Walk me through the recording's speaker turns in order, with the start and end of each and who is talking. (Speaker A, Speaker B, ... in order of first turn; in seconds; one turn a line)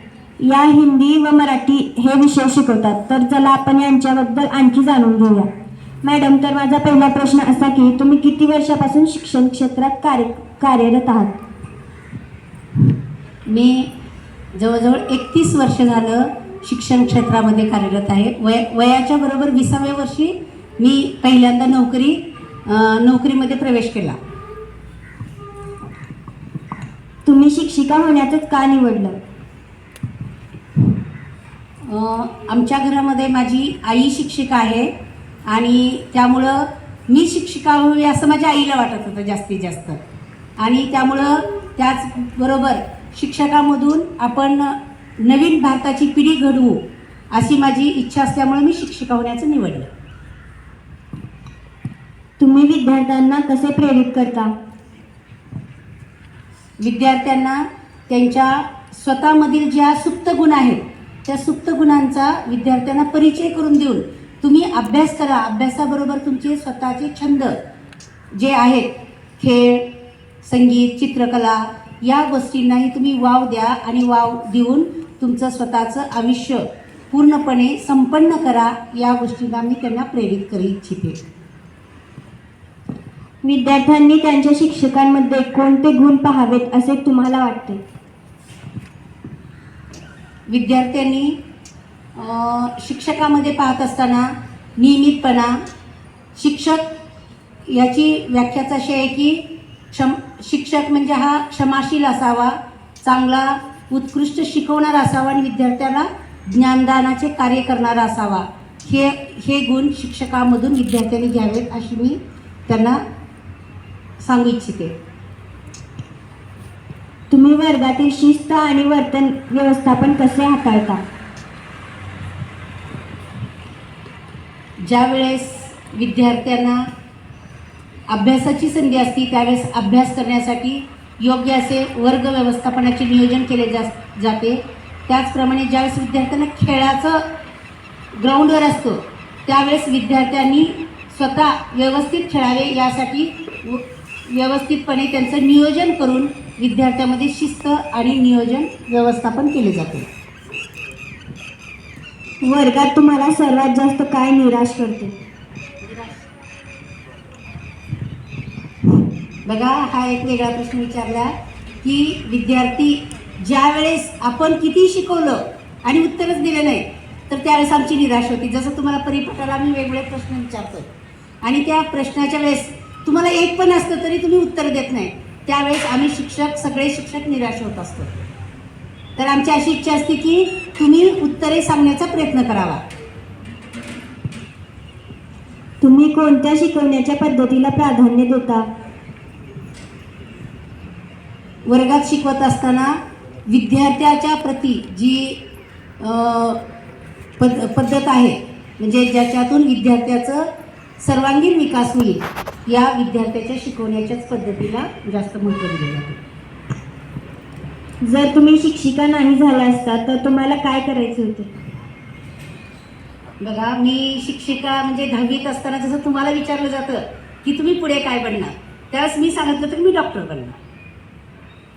Speaker A: 0.4-5.5
Speaker A: 6.0-11.3
Speaker B: 13.5-13.9
Speaker B: 14.5-24.2
Speaker A: 27.2-29.2
Speaker B: 31.9-34.9
Speaker B: 35.5-40.0
Speaker B: 40.6-49.9
Speaker A: 52.4-54.5
Speaker B: 56.8-67.5
Speaker B: 68.3-69.9
Speaker B: 70.4-81.2
Speaker A: 83.4-87.8
Speaker B: 90.5-91.4
Speaker B: 92.2-95.5
Speaker B: 96.3-96.8
Speaker B: 97.7-113.0
Speaker B: 114.2-114.9
Speaker A: 117.3-121.0
Speaker B: 124.8-126.8
Speaker B: 128.1-137.2
Speaker B: 138.2-150.1
Speaker A: 152.4-155.1
Speaker B: 155.8-156.1
Speaker B: 159.4-161.3
Speaker B: 161.8-170.9
Speaker B: 171.4-178.1
Speaker B: 179.2-182.8
Speaker A: 185.8-188.7
Speaker B: 191.7-192.9
Speaker B: 193.5-195.4
Speaker B: 196.0-196.6
Speaker B: 197.4-200.5
Speaker B: 201.0-206.2
Speaker A: 208.1-211.5
Speaker B: 213.4-220.6